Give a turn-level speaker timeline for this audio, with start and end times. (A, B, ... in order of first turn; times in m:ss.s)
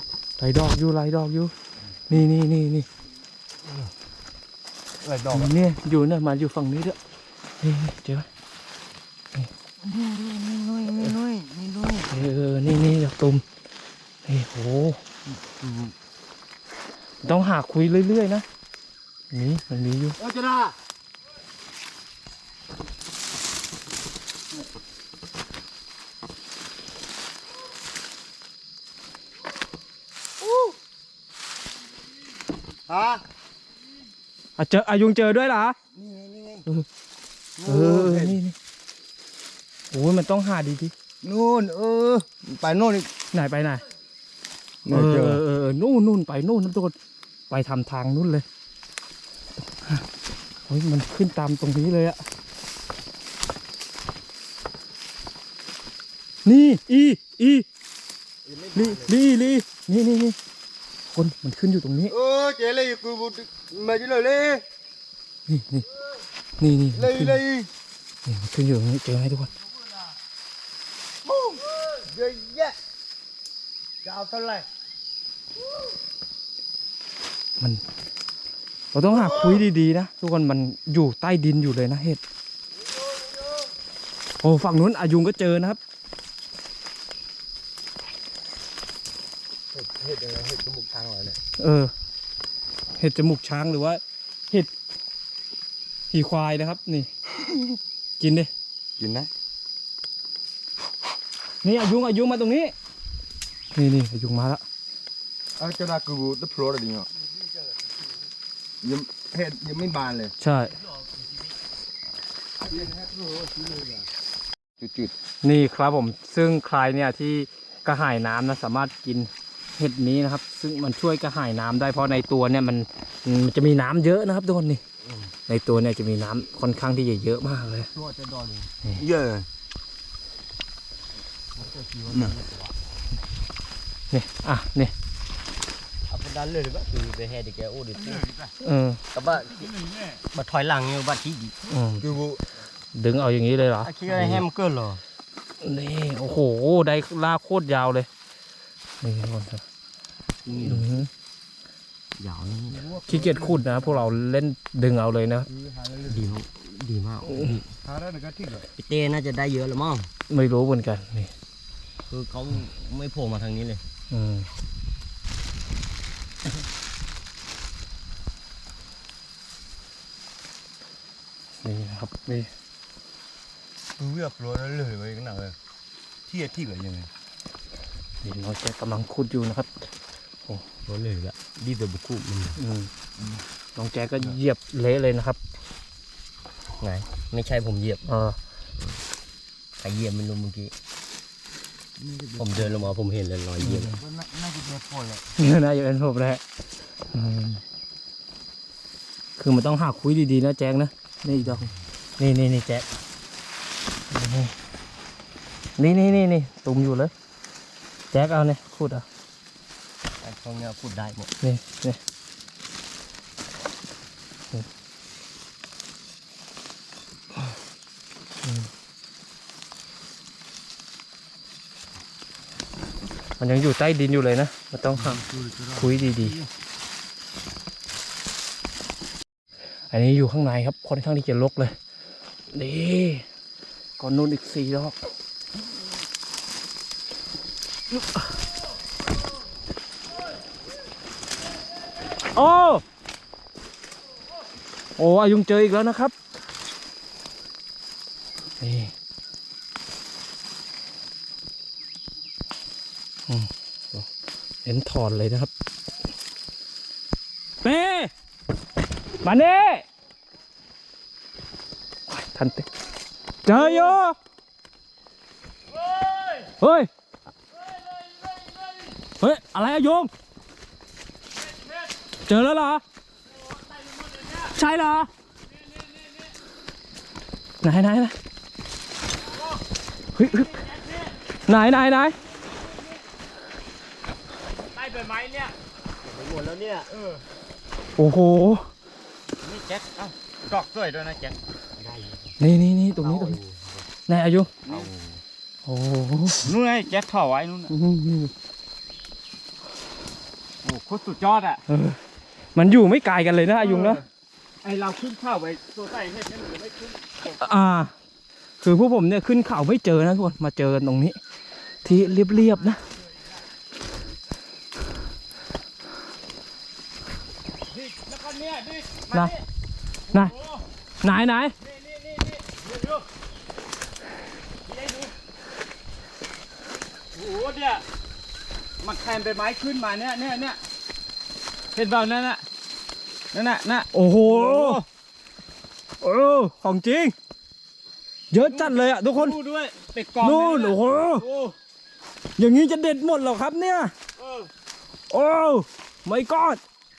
0:00.4-0:01.5 A
0:02.1-0:02.8 A
0:05.0-0:05.5 B
0:05.3-0:07.0 A
0:07.6-0:08.3 A
0:09.8-0:12.1 B
0:12.1-0:13.4 A
0:14.2-0:15.0 A
0:15.3-0:15.9 B
0:17.2-0:18.4 A
0:19.3-0:20.2 A
0:20.2-0:20.7 B
0:30.4-0:30.7 B
0:32.9-0:33.2 B
0:34.6-0:35.8 A
0:35.9-0:36.6 B
0:37.6-0:38.4 B
0:37.6-0:38.5 A
0:39.9-0:40.9 A
0:41.2-0:43.1 B
0:43.3-0:43.8 A
0:44.8-0:45.4 B
0:44.9-0:46.9 A
0:47.5-0:48.4 A
0:49.8-0:50.1 A
0:50.7-0:52.2 A
0:56.4-0:57.6 A
0:58.4-0:59.1 B
0:58.7-1:00.4 A
1:01.1-1:02.1 A
1:02.1-1:04.6 B
1:05.5-1:05.8 A
1:06.6-1:07.4 A
1:06.9-1:07.7 B
1:08.2-1:09.5 A
1:11.2-1:12.8 B
1:14.0-1:14.6 B
1:18.9-1:22.2 A
1:24.4-1:25.8 A
1:29.7-1:31.4 B
1:31.6-1:31.9 A
1:33.0-1:34.7 A
1:36.1-1:37.1 A
1:38.2-1:38.5 A
1:39.0-1:39.3 B
1:41.6-1:42.7 A
1:43.7-1:44.6 A
1:45.6-1:47.1 B
1:48.8-1:50.3 B
1:50.4-1:50.8 A
1:52.6-1:54.1 B
1:54.8-1:55.1 B
1:55.4-2:04.8 A
2:05.5-2:07.9 A
2:07.9-2:08.7 C
2:09.0-2:09.5 B
2:11.5-2:12.7 C
2:12.1-2:12.3 B
2:14.1-2:14.9 A
2:16.1-2:18.3 C
2:18.2-2:18.4 B
2:18.6-2:19.0 A
2:19.1-2:19.7 C
2:19.4-2:20.2 D
2:20.3-2:21.5 C
2:21.7-2:22.1 A
2:22.0-2:22.4 B
2:22.9-2:24.4 A
2:23.8-2:25.0 C
2:25.6-2:28.1 A
2:29.0-2:29.6 A
2:30.4-2:30.9 C
2:30.6-2:31.1 A
2:32.2-2:32.9 C
2:32.7-2:34.1 B
2:33.1-2:35.5 A
2:35.5-2:36.3 B
2:36.1-2:37.7 C
2:37.3-2:37.5 A
2:37.8-2:38.7 B
2:38.8-2:40.1 C
2:40.3-2:41.3 A
2:42.1-2:43.8 C
2:44.1-2:44.5 A
2:51.6-2:52.5 A
2:54.0-2:55.6 B
2:56.3-2:57.1 B
2:58.2-2:59.9 A
3:00.8-3:02.6 C
3:02.6-3:02.9 A
3:03.2-3:03.4 B
3:03.8-3:05.4 A
3:06.8-3:08.0 C
3:08.1-3:08.4 A
3:09.8-3:10.7 C
3:12.0-3:12.9 B
3:12.4-3:14.0 C
3:13.6-3:14.0 A
3:13.8-3:15.3 B
3:15.4-3:16.4 A
3:17.1-3:17.6 A
3:19.4-3:22.9 A
3:24.1-3:24.5 A
3:25.8-3:27.1 A
3:28.1-3:29.0 A
3:30.2-3:31.3 C
3:31.4-3:32.0 A
3:38.4-3:38.7 A
3:43.4-3:45.2 A
3:44.9-3:46.4 B
3:45.7-3:46.4 A
3:49.9-3:51.8 A
3:52.5-3:53.2 A
3:54.0-3:55.0 A
3:57.9-3:58.3 A
4:02.3-4:02.8 A
4:05.0-4:06.1 A
4:08.6-4:08.9 A
4:13.3-4:14.1 A
4:14.6-4:15.5 A
4:17.6-4:18.1 A
4:19.2-4:19.8 A
4:22.1-4:22.7 A
4:23.4-4:24.2 A
4:26.6-4:26.9 A
4:28.0-4:28.6 D
4:29.2-4:30.1 A
4:32.3-4:32.8 A
4:33.6-4:34.5 D
4:34.5-4:35.1 A
4:35.5-4:36.3 D
4:37.6-4:38.1 A
4:40.1-4:40.6 A
4:40.2-4:41.1 D
4:41.5-4:42.2 A
4:44.4-4:45.5 D
4:46.0-4:46.9 C
4:46.9-4:47.2 D
4:48.0-4:48.7 A
4:49.4-4:51.4 D
4:51.8-4:52.4 C
4:52.4-4:53.4 A
4:52.9-4:53.9 C
4:54.0-4:54.5 A
4:54.6-4:54.9 D
4:55.6-4:56.4 A
4:56.4-4:57.7 D
4:57.7-4:58.3 A
5:00.6-5:01.6 D
5:01.7-5:02.0 A
5:02.5-5:04.0 A
5:03.6-5:04.0 D
5:04.6-5:07.3 D
5:07.3-5:07.9 A
5:08.6-5:11.2 A
5:11.8-5:12.8 A
5:11.9-5:13.3 D
5:17.7-5:19.4 D
5:20.1-5:20.6 D
5:21.0-5:21.5 A
5:21.6-5:23.0 D
5:24.6-5:25.1 D
5:27.1-5:27.8 D
5:28.8-5:30.6 D
5:31.7-5:32.4 D
5:33.3-5:34.8 D
5:33.9-5:34.8 A
5:36.0-5:37.1 A
5:38.3-5:39.4 A
5:38.4-5:41.5 D
5:40.2-5:41.2 A
5:42.4-5:43.9 A
5:44.2-5:44.5 D
5:45.1-5:46.6 A